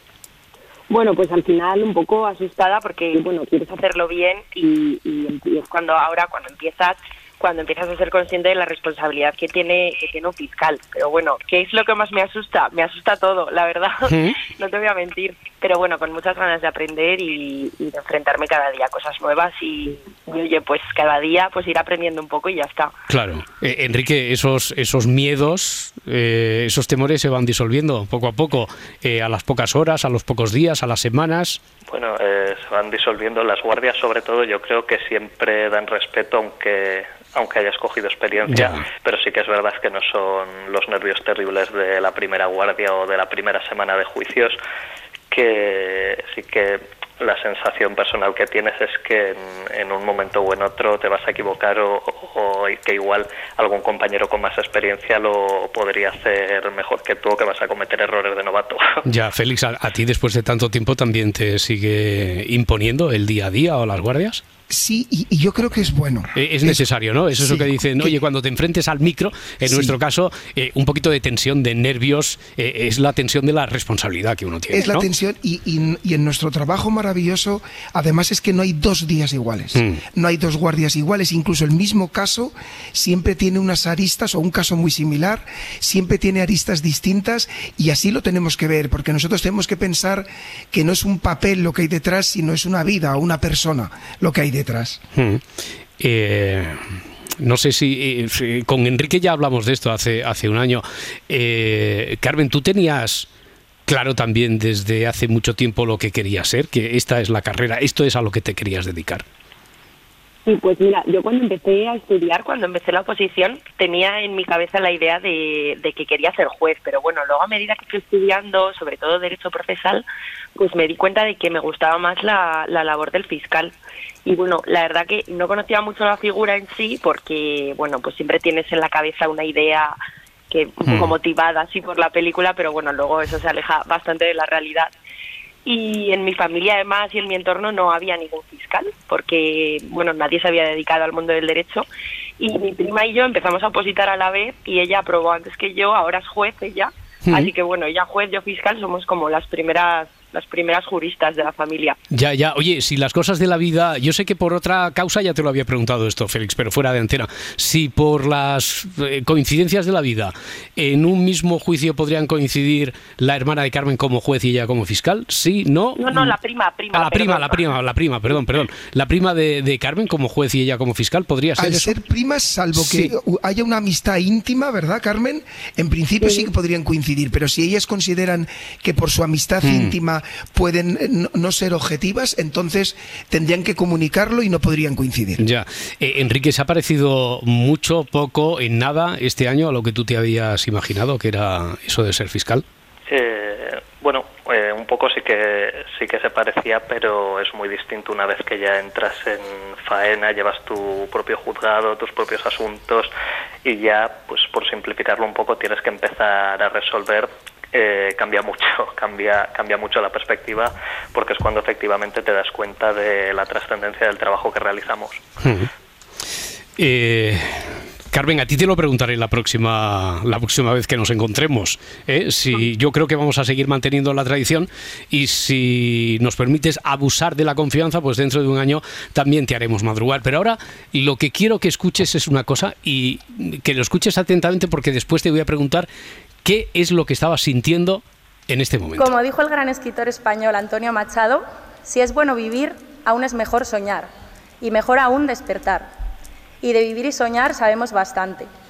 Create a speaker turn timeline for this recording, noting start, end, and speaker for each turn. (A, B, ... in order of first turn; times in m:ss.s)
0:00.9-0:22.9 A
0:14.1-0:14.4 B
0:23.1-0:31.6 B
0:31.9-0:44.6 C
0:38.5-0:38.8 B
0:45.3-0:59.0 C
0:59.1-1:04.4 B
1:04.7-1:06.9 D
1:06.4-1:15.1 B
1:07.4-1:08.2 D
1:09.6-1:10.0 D
1:14.7-1:35.0 D
1:19.8-1:20.0 B
1:35.2-1:35.4 B
1:36.0-1:43.3 B
1:43.9-1:49.2 B
1:50.4-2:00.0 A
2:00.6-2:03.7 A
2:04.2-2:10.0 A
2:10.5-2:14.9 A
2:10.8-2:11.2 B
2:15.6-2:21.9 A
2:22.4-2:32.0 A
2:27.3-2:27.5 B
2:32.1-2:46.4 B
2:46.0-2:47.7 A
2:46.9-2:52.0 B
2:51.6-3:05.4 D
2:52.8-2:53.1 B
2:56.2-2:56.5 A
2:59.6-2:59.9 B
3:05.4-3:12.6 B
3:13.1-3:23.1 C
3:23.6-3:35.2 C
3:35.4-3:35.7 B
3:36.8-3:55.9 B
3:56.4-3:59.2 B
3:59.0-4:05.9 E
4:06.6-4:08.5 E